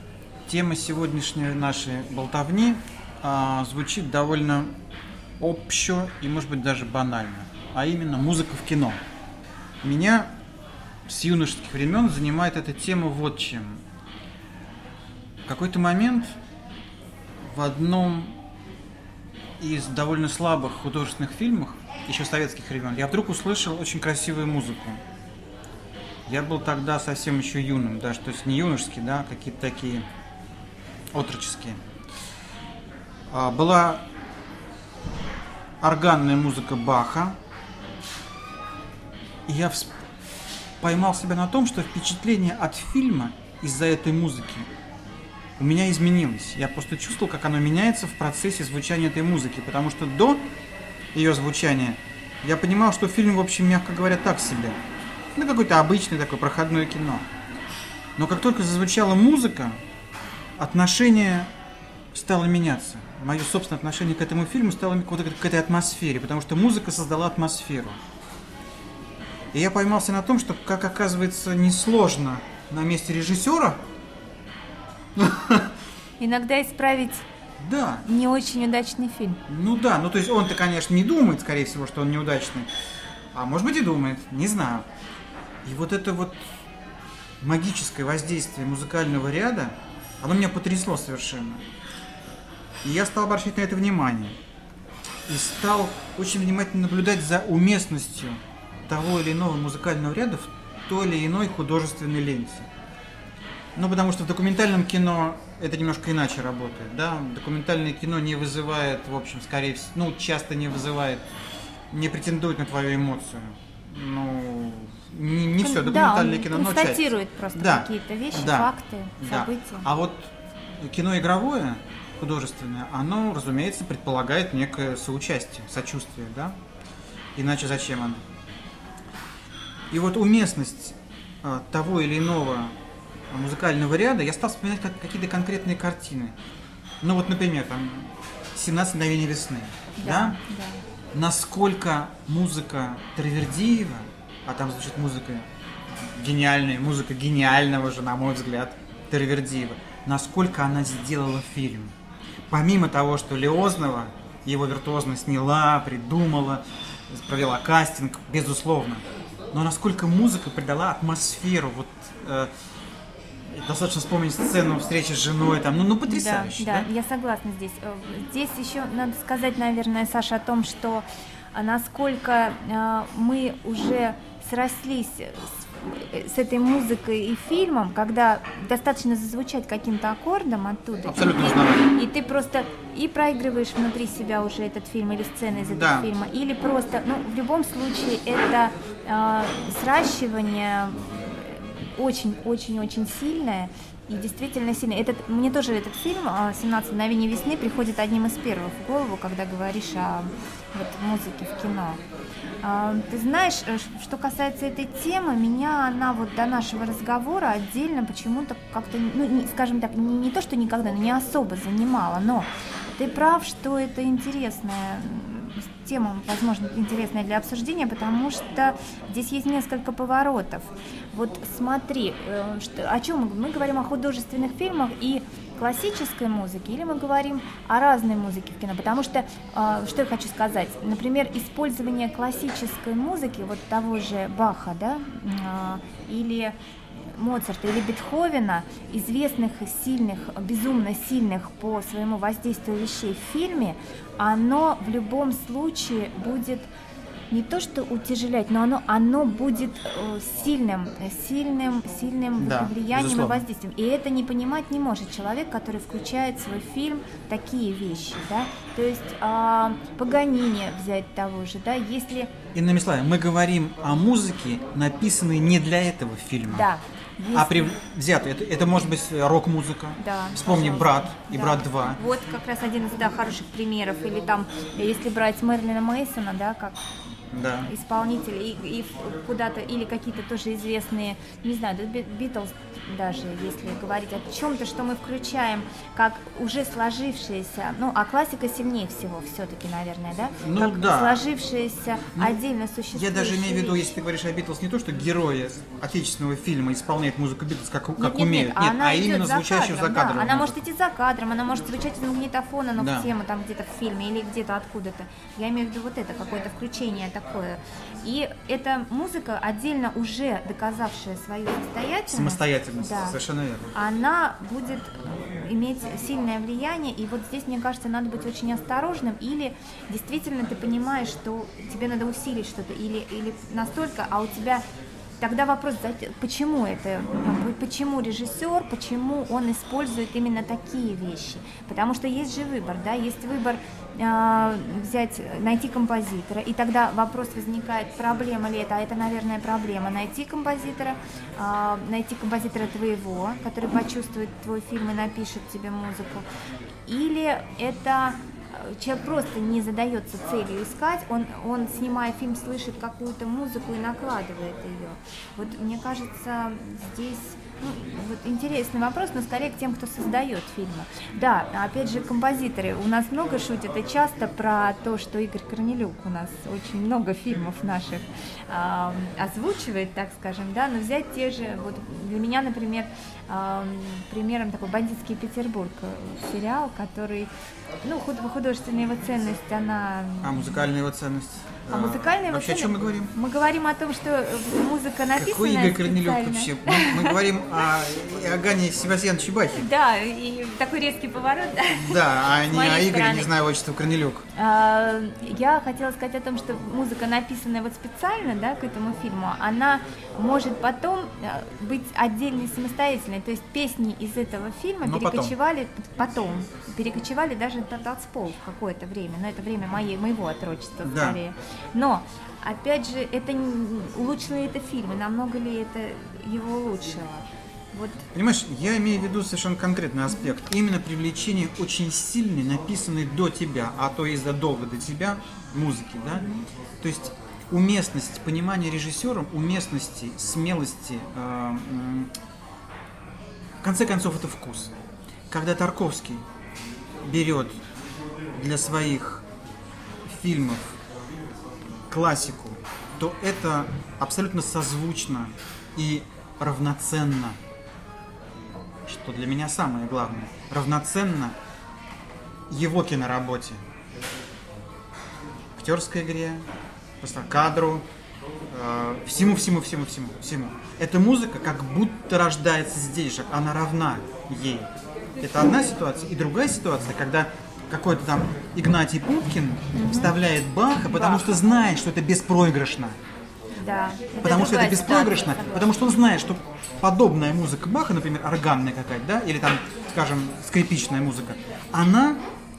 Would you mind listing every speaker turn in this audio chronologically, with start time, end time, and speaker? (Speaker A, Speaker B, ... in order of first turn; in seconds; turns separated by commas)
Speaker A: 0.5-4.7, Speaker A: 5.4-9.0, Speaker A: 9.8-10.3, Speaker A: 11.1-13.8, Speaker A: 15.5-16.4, Speaker A: 17.4-18.4, Speaker A: 19.6-25.0, Speaker A: 26.3-30.1, Speaker A: 31.1-31.8, Speaker A: 33.3-34.1, Speaker A: 35.8-37.4, Speaker A: 39.5-39.9, Speaker A: 40.8-44.7, Speaker A: 45.6-50.5, Speaker A: 51.1-54.8, Speaker A: 55.4-57.3, Speaker A: 58.2-59.8, Speaker A: 60.6-61.5, Speaker A: 62.1-68.0, Speaker A: 69.5-73.8, Speaker A: 75.2-75.7, Speaker B: 76.2-77.2, Speaker A: 77.6-78.1, Speaker B: 78.1-79.4, Speaker A: 79.5-82.7, Speaker A: 83.3-84.9, Speaker A: 85.7-86.4, Speaker A: 87.4-91.6, Speaker A: 92.8-94.4, Speaker A: 95.3-102.7, Speaker A: 103.8-111.3, Speaker A: 111.9-126.6, Speaker B: 115.6-119.9, Speaker A: 127.3-128.2, Speaker A: 129.9-132.8, Speaker A: 133.3-136.4, Speaker A: 137.0-140.4, Speaker B: 140.0-140.8, Speaker A: 141.1-151.9, Speaker A: 152.5-162.5, Speaker A: 163.4-166.9, Speaker B: 166.1-202.0, Speaker A: 181.0-181.9, Speaker A: 185.6-186.1, Speaker B: 202.6-236.6, Speaker B: 237.1-246.7, Speaker B: 247.3-262.3, Speaker A: 252.4-253.4, Speaker A: 262.5-266.7, Speaker B: 266.5-267.8, Speaker A: 267.3-272.0, Speaker B: 270.0-276.8, Speaker A: 277.3-277.7, Speaker B: 277.7-294.0, Speaker A: 290.4-291.2, Speaker A: 292.9-300.6, Speaker B: 298.0-313.2, Speaker A: 302.8-303.1, Speaker A: 312.1-313.7, Speaker B: 313.7-324.6, Speaker B: 325.2-346.3, Speaker B: 346.9-377.3, Speaker B: 377.8-380.4, Speaker A: 380.2-383.1, Speaker B: 381.7-387.2, Speaker A: 385.1-389.7, Speaker B: 389.5-393.3, Speaker A: 391.8-394.3, Speaker B: 394.4-418.1, Speaker A: 404.8-405.3, Speaker A: 410.8-411.2, Speaker A: 418.1-426.3, Speaker A: 426.8-432.1, Speaker A: 433.6-434.7, Speaker A: 435.3-436.2, Speaker A: 437.0-437.6, Speaker A: 438.3-439.2, Speaker A: 440.1-440.8, Speaker A: 441.9-447.4, Speaker A: 448.9-451.4, Speaker A: 452.5-453.6, Speaker A: 455.6-456.4, Speaker A: 457.0-457.9, Speaker A: 458.5-473.0, Speaker B: 469.7-470.1, Speaker B: 470.9-471.4, Speaker B: 473.6-475.7, Speaker A: 474.2-482.2